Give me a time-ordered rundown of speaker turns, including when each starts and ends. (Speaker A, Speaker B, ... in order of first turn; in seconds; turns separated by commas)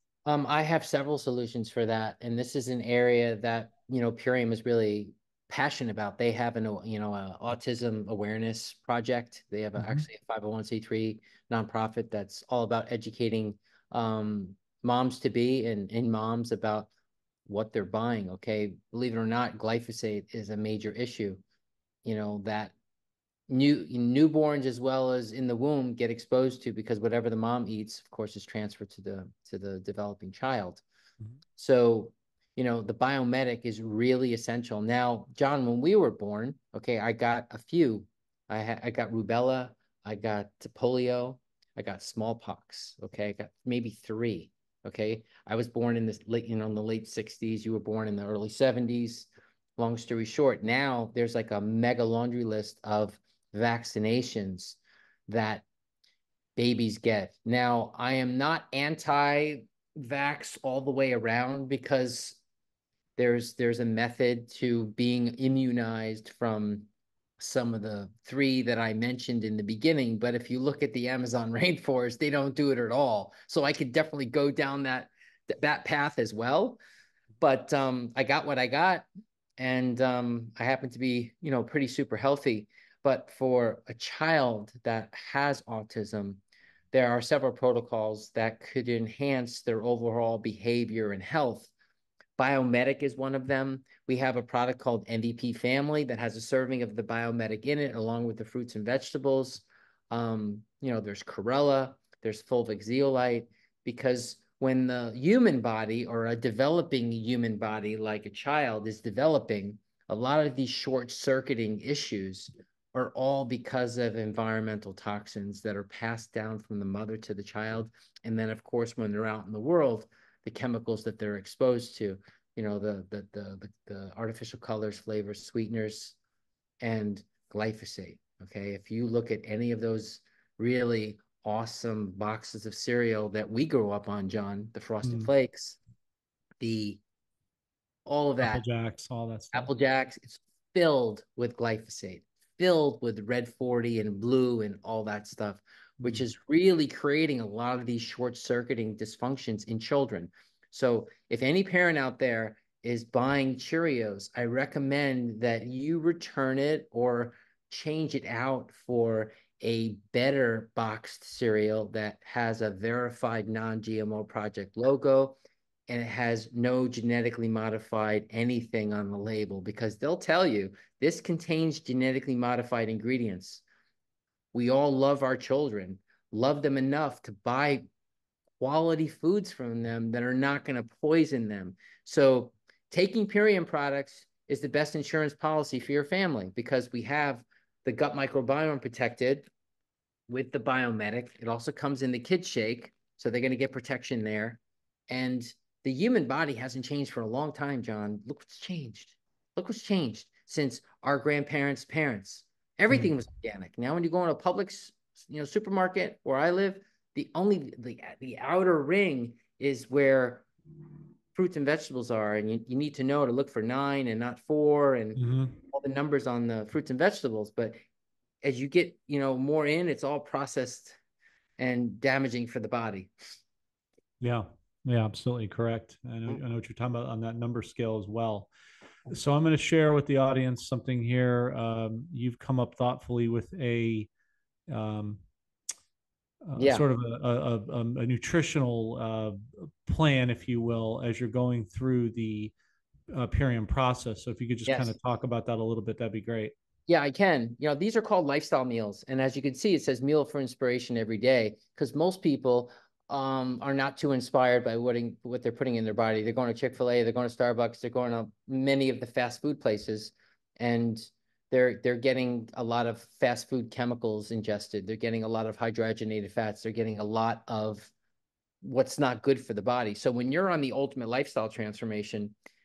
Speaker A: 0.2-16.9, Speaker B: 9.8-10.0, Speaker A: 17.5-21.4, Speaker A: 22.0-22.7, Speaker A: 23.5-30.8, Speaker A: 31.6-55.6, Speaker A: 56.5-62.4, Speaker A: 63.2-66.9, Speaker A: 67.4-76.8, Speaker A: 77.4-79.0, Speaker A: 79.6-86.4, Speaker A: 86.9-91.7, Speaker A: 92.4-126.2, Speaker A: 126.8-135.8, Speaker B: 135.0-135.3, Speaker A: 136.6-137.0, Speaker A: 138.1-138.6, Speaker B: 138.4-139.7, Speaker A: 139.5-165.4, Speaker A: 165.9-173.6, Speaker A: 174.5-177.8, Speaker A: 178.6-189.4, Speaker A: 190.3-210.5, Speaker A: 211.3-217.8, Speaker B: 215.2-215.6, Speaker A: 218.4-221.0, Speaker A: 221.6-223.1, Speaker B: 224.2-228.5, Speaker B: 229.1-234.1, Speaker B: 234.7-235.2, Speaker B: 236.4-242.5, Speaker A: 236.6-236.8, Speaker B: 243.1-246.5, Speaker A: 244.7-244.9, Speaker A: 246.9-267.9, Speaker A: 268.6-272.3